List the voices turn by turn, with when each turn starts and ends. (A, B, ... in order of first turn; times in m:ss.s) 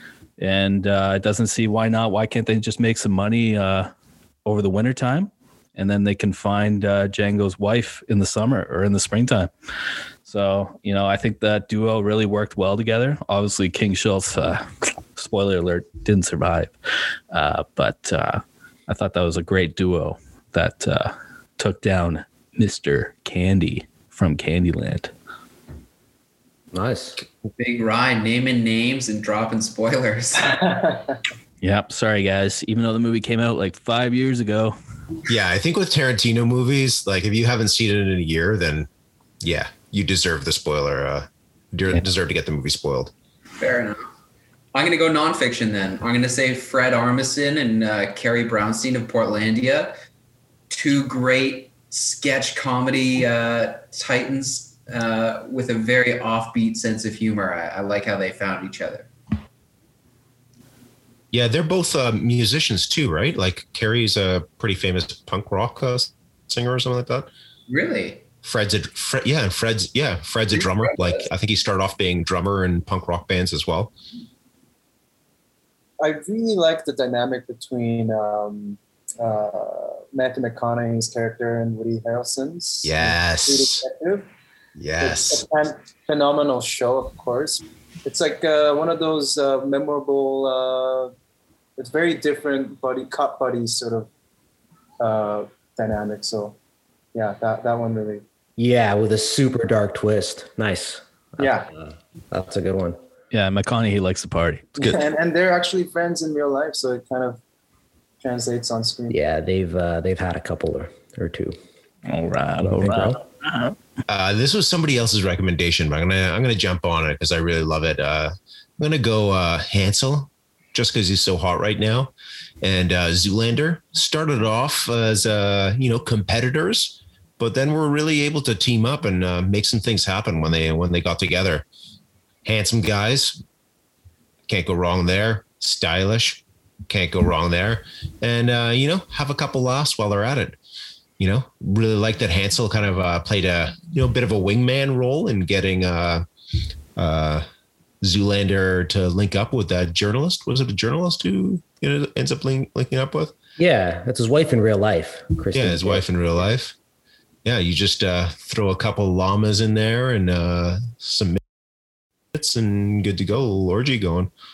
0:00.4-0:03.9 A
0:04.4-0:09.5 A
0:10.2-0:16.7 A
0:17.3-0:25.1 A
0:26.7-0:27.2 B
0:27.5-0:30.6 C
0:30.5-0:31.2 D
0:31.6-0:34.8 A
0:35.3-0:38.9 E
0:39.4-0:43.1 E
0:43.6-0:44.1 C
0:44.7-0:49.9 C
0:50.7-0:59.1 C
1:01.3-1:07.3 E
1:07.7-1:08.2 C
1:08.4-1:13.9 E
1:10.5-1:11.3 C
1:16.0-1:24.3 D
1:22.8-1:23.8 E
1:24.8-1:25.5 E
1:25.0-1:31.1 D
1:31.8-1:34.1 D
1:35.0-1:36.6 D
1:37.1-1:38.2 D
1:38.6-1:43.0 B
1:41.4-1:41.7 D
1:43.3-1:45.0 A
1:44.8-1:47.4 D
1:48.2-1:49.2 D
1:49.1-1:51.6 B
1:52.1-1:53.8 A
1:52.6-1:53.2 B
1:54.1-2:11.7 E
2:12.4-2:13.4 E
2:14.5-2:20.6 E
2:21.2-2:26.2 E
2:27.0-2:27.5 E
2:28.0-2:33.4 E
2:33.6-2:36.1 B
2:35.5-2:36.8 E
2:37.4-2:41.4 E
2:42.3-2:44.3 E